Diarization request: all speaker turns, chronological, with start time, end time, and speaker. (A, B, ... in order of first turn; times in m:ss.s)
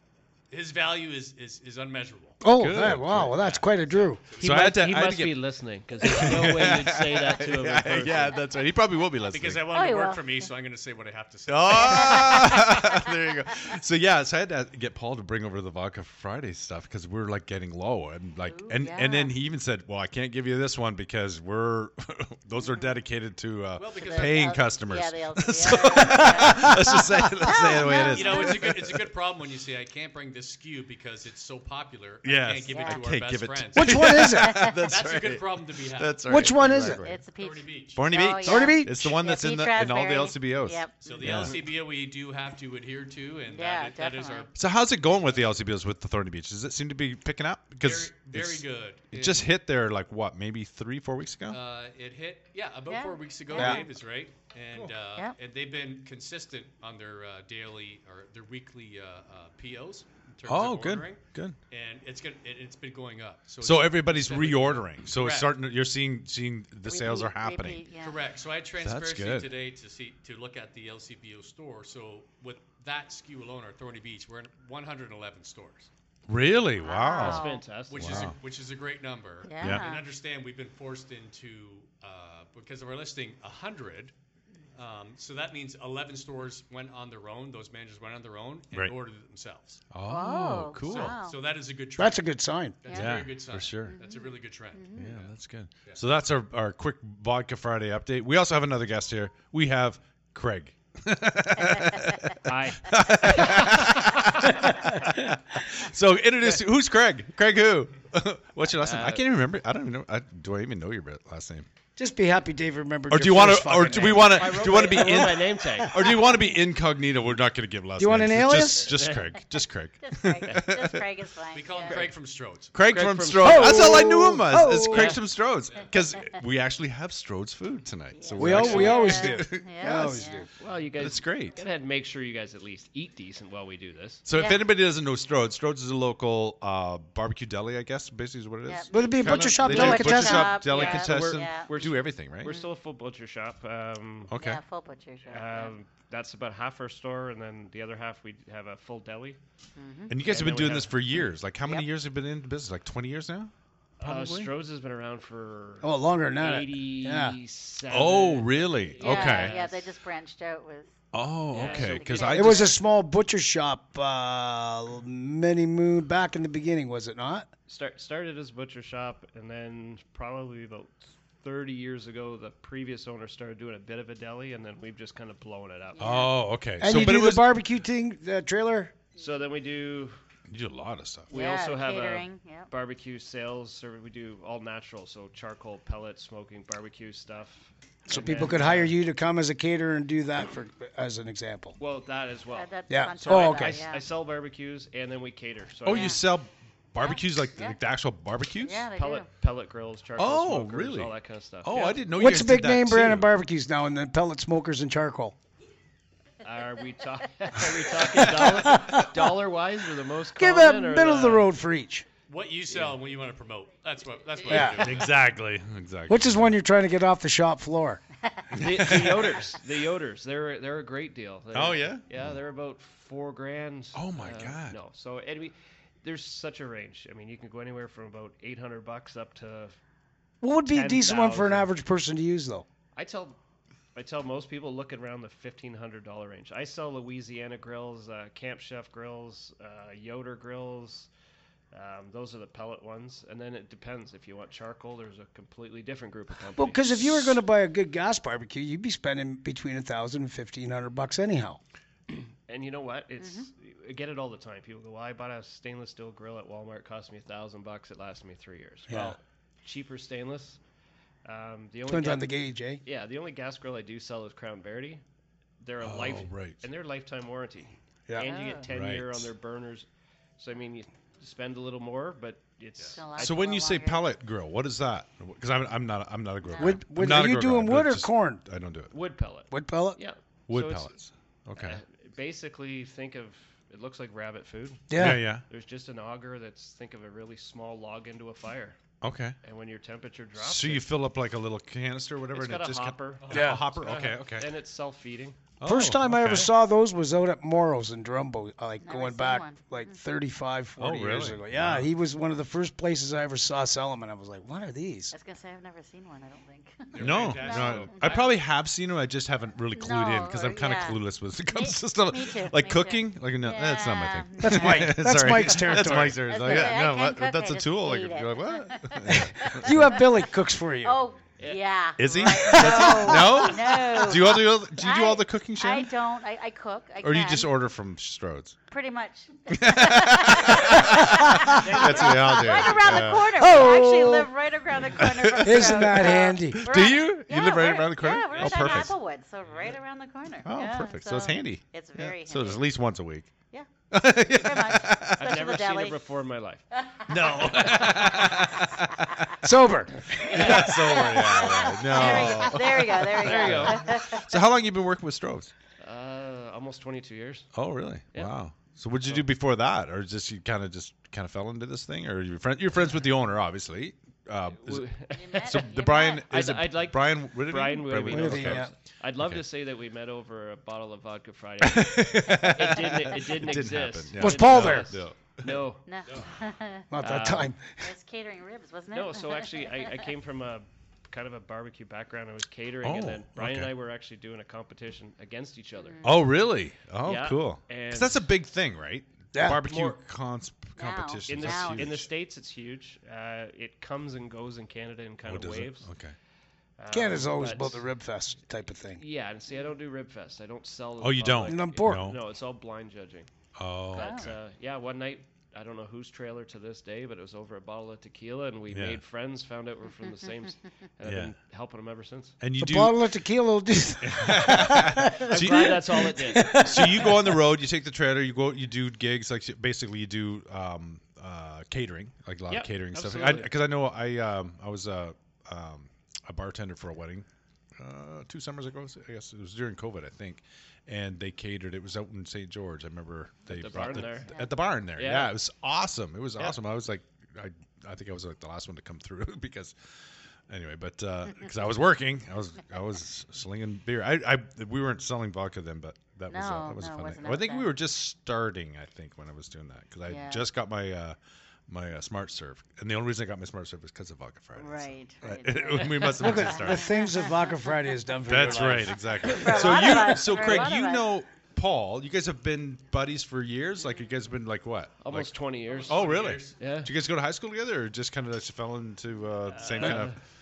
0:00.5-0:02.4 A
0:02.4-0:04.2 B
0:02.5-0:03.4 C
0:03.2-0:04.7 A
0:04.4-0:05.4 C
0:04.4-0:08.4 D
0:06.0-0:09.7 C
0:09.3-0:12.6 A
0:09.7-0:10.5 E
0:11.5-0:29.1 C
0:11.8-0:12.8 E
0:18.4-0:19.3 E
0:22.6-0:22.9 E
0:23.8-0:24.7 A
0:24.0-0:28.8 E
0:28.0-0:34.3 A
0:32.2-0:37.2 C
0:32.7-0:33.0 E
0:33.7-0:34.7 B
0:34.3-0:34.8 E
0:34.8-0:36.5 A
0:36.3-0:37.0 B
0:36.6-0:41.6 E
0:37.4-0:38.1 A
0:38.0-0:41.7 C
0:38.4-0:39.2 B
0:41.0-0:44.5 A
0:43.5-0:44.5 E
0:44.6-0:51.6 C
0:47.8-0:49.5 A
0:51.5-1:05.5 A
0:52.9-0:53.9 E
1:00.5-1:01.6 C
1:03.6-1:07.8 C
1:06.8-1:08.2 E
1:08.0-1:15.9 A
1:08.8-1:09.5 C
1:16.3-1:18.4 C
1:16.8-1:17.6 E
1:17.2-1:18.3 D
1:17.9-1:24.1 A
1:19.4-1:20.0 E
1:24.8-1:29.8 A
1:29.9-1:31.2 C
1:30.0-1:31.4 E
1:30.9-1:32.3 A
1:32.0-1:32.8 B
1:32.8-1:35.3 A
1:32.9-1:33.2 E
1:32.9-1:34.0 C
1:33.8-1:35.2 E
1:35.0-1:51.7 C
1:42.4-1:42.9 D
1:48.8-1:49.2 D
1:52.0-1:55.2 B
1:53.1-2:01.0 C
1:53.9-1:56.0 D
1:55.8-1:56.3 B
1:58.0-1:58.9 B
1:58.8-1:59.2 D
2:00.0-2:02.1 E
2:01.5-2:02.7 A
2:02.7-2:10.2 C
2:02.8-2:04.2 D
2:03.4-2:05.2 B
2:04.9-2:05.2 D
2:08.1-2:10.4 E
2:08.4-2:10.5 B
2:10.6-2:14.2 D
2:11.0-2:11.6 C
2:14.2-2:22.5 C
2:14.3-2:14.7 E
2:18.7-2:21.7 E
2:18.9-2:20.6 B
2:19.2-2:24.3 D
2:24.3-2:24.6 C
2:24.3-2:25.7 E
2:25.3-2:29.4 D
2:29.8-2:30.2 E
2:30.1-2:33.5 C
2:30.2-2:31.2 D
2:34.0-2:39.9 D
2:34.0-2:34.5 B
2:35.8-2:37.4 B
2:37.9-2:39.6 C
2:39.0-2:40.9 E
2:41.1-2:42.8 C
2:41.5-2:42.5 D
2:41.5-2:42.7 E
2:42.3-2:47.5 B
2:47.7-2:56.3 D
2:56.0-2:56.4 E
2:56.0-2:57.5 C
2:56.8-2:58.9 B
2:59.2-3:00.2 D
3:00.5-3:01.3 C
3:01.3-3:09.0 D
3:01.3-3:02.7 E
3:08.1-3:11.8 B
3:11.8-3:16.2 D
3:12.5-3:14.0 E
3:12.9-3:13.8 B
3:15.9-3:16.2 E
3:15.9-3:18.9 C
3:17.0-3:17.8 E
3:18.6-3:19.3 E
3:19.0-3:22.1 D
3:20.2-3:23.3 C
3:22.1-3:25.4 B
3:26.4-3:31.5 D
3:28.1-3:28.6 C
3:28.5-3:29.2 B
3:30.4-3:32.0 B
3:32.3-3:35.1 A
3:34.5-3:34.8 B
3:34.5-3:35.0 E
3:34.7-3:36.5 C
3:36.1-3:38.0 B
3:38.5-3:39.4 C
3:38.6-3:49.8 D
3:41.5-3:42.3 C
3:43.9-3:44.8 C
3:50.4-3:52.7 B
3:50.7-3:51.7 D
3:53.0-3:53.4 D
3:54.0-4:01.1 D
4:01.7-4:07.4 D
4:06.6-4:11.6 B
4:12.5-4:20.6 D
4:13.2-4:13.5 E
4:18.9-4:19.2 B
4:21.2-4:25.0 D
4:21.9-4:22.8 B
4:25.6-4:29.9 D
4:25.8-4:26.6 C
4:28.2-4:28.7 E
4:28.7-4:29.3 C
4:30.4-4:33.4 D
4:32.9-4:34.0 E
4:33.2-4:38.9 C
4:36.4-4:36.8 E
4:36.6-4:38.4 B
4:38.9-4:40.9 D
4:39.5-4:40.0 B
4:40.5-4:41.8 C
4:41.6-4:48.8 D
4:44.9-4:45.3 B
4:45.0-4:45.4 C
4:49.0-4:49.4 C
4:49.4-4:50.9 D
4:50.4-4:54.5 C
4:52.3-4:55.4 D
4:53.3-4:53.6 B
4:55.6-4:56.5 C
4:55.6-5:05.1 B
4:58.8-5:00.0 E
5:00.8-5:01.9 C
5:05.1-5:08.3 E
5:06.9-5:08.4 A
5:07.0-5:19.7 C
5:09.8-5:15.0 E
5:14.4-5:16.5 B
5:15.7-5:20.1 E
5:19.1-5:21.0 B
5:20.8-5:27.5 E
5:21.4-5:22.3 D
5:22.0-5:25.9 C
5:22.4-5:23.5 B
5:27.0-5:28.6 C
5:28.7-5:42.7 E
5:29.5-5:33.6 C
5:31.1-5:31.6 B
5:31.6-5:32.8 D
5:33.2-5:34.3 B
5:34.9-5:38.9 C
5:35.4-5:36.6 B
5:38.1-5:38.9 A
5:40.5-5:43.4 C
5:43.9-5:45.3 C
5:44.4-5:46.0 E
5:45.2-5:48.3 D
5:47.0-5:47.5 E
5:47.1-5:49.1 C
5:49.4-5:50.2 B
5:50.3-5:51.1 D
5:50.3-5:55.5 C
5:50.4-5:54.4 E
5:53.2-5:53.9 D
5:55.8-5:57.5 D
5:57.5-6:08.6 C
6:04.6-6:15.8 D
6:05.1-6:06.3 E
6:08.1-6:08.7 B
6:09.2-6:09.4 C
6:11.6-6:15.7 C
6:14.2-6:15.0 B
6:15.9-6:16.9 E
6:16.9-6:17.9 B
6:17.0-6:17.5 D
6:17.8-6:20.0 E
6:18.9-6:26.1 D
6:22.8-6:23.7 C
6:25.9-6:26.2 E
6:26.0-6:32.1 C
6:27.0-6:28.2 D
6:29.3-6:29.6 B
6:29.6-6:30.0 D
6:30.8-6:32.0 E
6:31.3-6:35.9 D
6:35.2-6:36.2 C
6:36.8-6:37.8 D
6:36.9-6:39.0 B
6:38.9-6:43.3 D
6:41.0-6:42.2 C
6:41.5-6:42.1 B
6:43.6-6:44.3 C
6:43.9-6:52.4 D
6:43.9-6:44.3 E
6:48.7-6:49.0 C
6:50.0-6:50.5 E
6:51.0-6:51.3 C
6:52.4-6:53.0 C
6:52.6-6:57.4 B
6:54.0-6:55.8 C
6:55.3-6:56.9 D
6:56.6-7:07.3 C
7:02.5-7:03.5 D
7:07.8-7:19.8 C
7:13.5-7:14.3 D
7:14.3-7:14.6 E
7:15.0-7:15.3 D
7:20.5-7:31.2 C
7:26.3-7:27.7 E
7:30.1-7:30.4 E
7:31.7-7:37.0 C
7:34.6-7:37.6 E
7:36.1-7:39.3 B
7:38.2-7:45.4 C
7:39.2-7:41.1 E
7:45.0-7:46.9 D
7:45.7-7:46.6 A
7:45.9-7:50.2 C
7:49.6-7:50.2 D
7:49.6-7:49.9 A